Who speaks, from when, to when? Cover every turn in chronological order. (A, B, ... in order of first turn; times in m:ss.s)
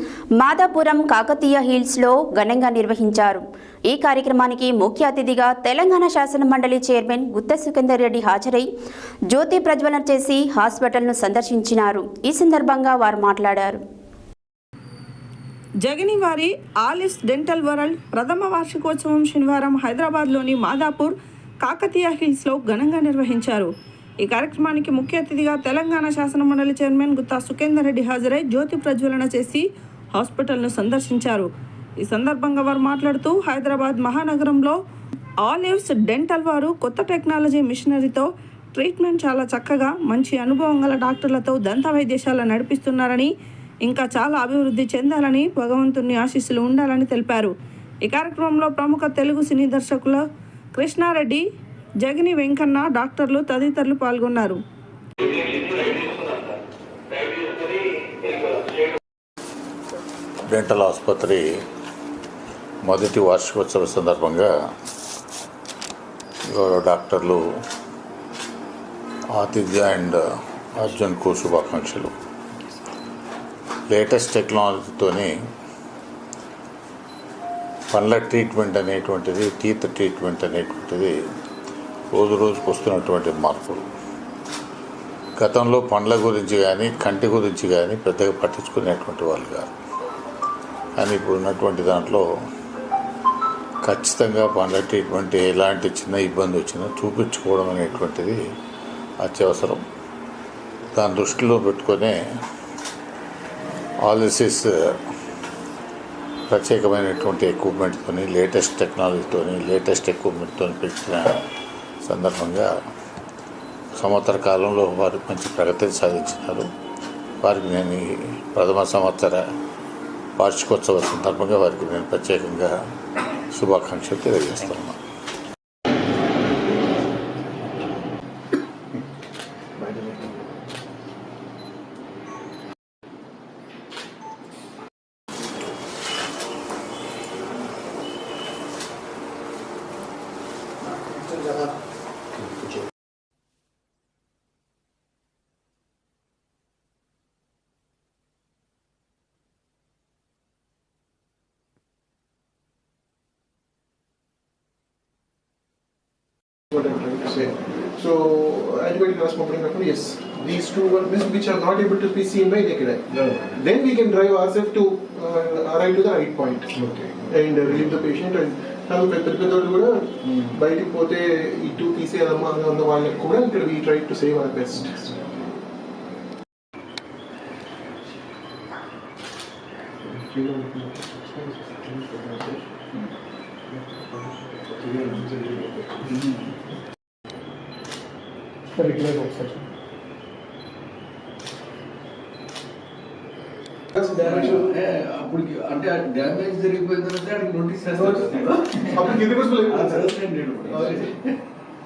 0:00.4-0:08.7 A
0:09.3-0:13.8 A
0:15.8-0:23.7 B
0:24.2-0:31.5 B
0:32.0-0:34.8 B
0:35.4-0:43.3 B
0:43.8-0:47.5 B
0:48.0-0:50.2 B
0:50.7-0:51.4 B
0:52.0-0:54.6 B
0:55.3-0:56.3 B
1:00.5-1:01.4 C
1:02.8-1:04.5 C
1:06.4-1:07.4 C
1:09.3-1:12.1 C
1:13.9-1:15.3 C
1:17.9-1:21.1 C
1:22.1-1:23.8 C
1:25.4-1:29.7 C
1:31.0-1:32.2 C
1:33.8-1:38.4 C
1:39.2-1:39.8 C
1:40.9-1:42.2 C
1:44.0-1:45.0 C
1:46.5-1:51.4 C
1:52.0-1:52.7 C
1:53.9-1:56.7 C
1:57.4-1:59.4 C
2:00.4-2:02.7 C
2:03.5-2:05.0 C
2:36.7-2:46.7 D
2:43.1-2:43.5 E
2:46.7-2:47.3 E
2:47.3-2:55.4 D
3:00.0-3:02.6 D
3:03.7-3:06.0 D
3:05.0-3:05.2 E
3:06.0-3:06.6 E
3:13.9-3:14.8 D
3:14.2-3:21.3 E
3:17.9-3:21.1 D